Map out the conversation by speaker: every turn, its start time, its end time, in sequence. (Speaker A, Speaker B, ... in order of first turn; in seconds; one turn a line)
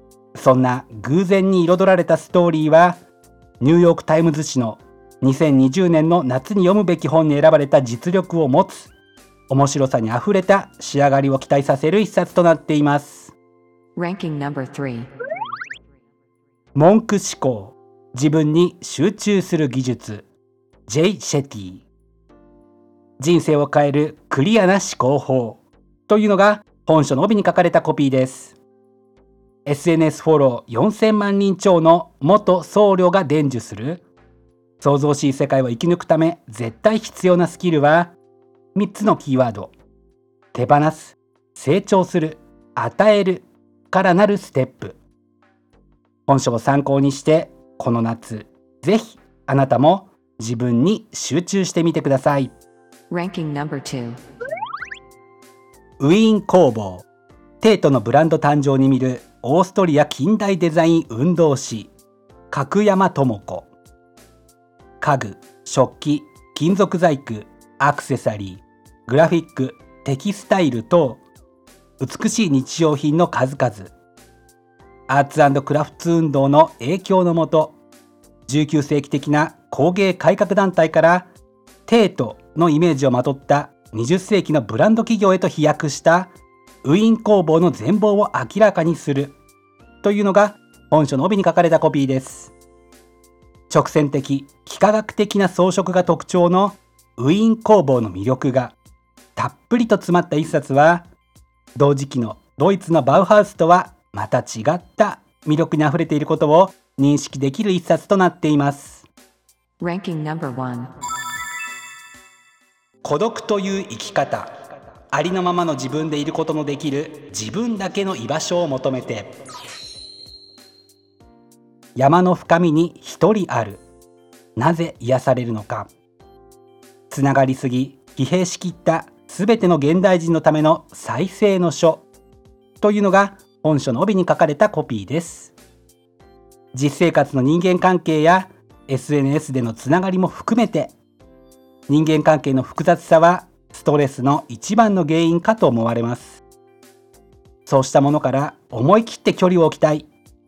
Speaker A: 0.3-3.0
Speaker A: 3.6-8.9
Speaker A: 9.5-13.3
Speaker B: 13.9-15.1
Speaker A: 16.7-20.3
Speaker A: 20.9-21.9
Speaker A: 23.2-28.6
Speaker A: 29.6-34.0
Speaker A: 34.8-38.1
Speaker A: 38.7-39.7
Speaker A: 40.5-45.0
Speaker A: 46.3-52.5
Speaker B: 53.1-54.2
Speaker A: 56.0-57.0
Speaker A: 57.6-61.9
Speaker A: 62.5-63.7
Speaker A: 65.0-71.2
Speaker A: 72.0-73.9
Speaker A: 75.1-77.8
Speaker A: 78.5-81.3
Speaker A: 81.9-86.3
Speaker A: 86.8-89.4
Speaker A: 90.0-92.5
Speaker A: 93.7-98.8
Speaker A: 99.3-101.1
Speaker A: 101.8-109.1
Speaker B: 109.8-110.9
Speaker A: 113.0-114.5
Speaker A: 115.1-119.3
Speaker A: 122.0-123.8
Speaker A: 124.5-125.9
Speaker A: 127.1-132.1
Speaker A: 132.8-135.5
Speaker A: 136.7-140.9
Speaker A: 141.9-146.4
Speaker A: 147.7-150.1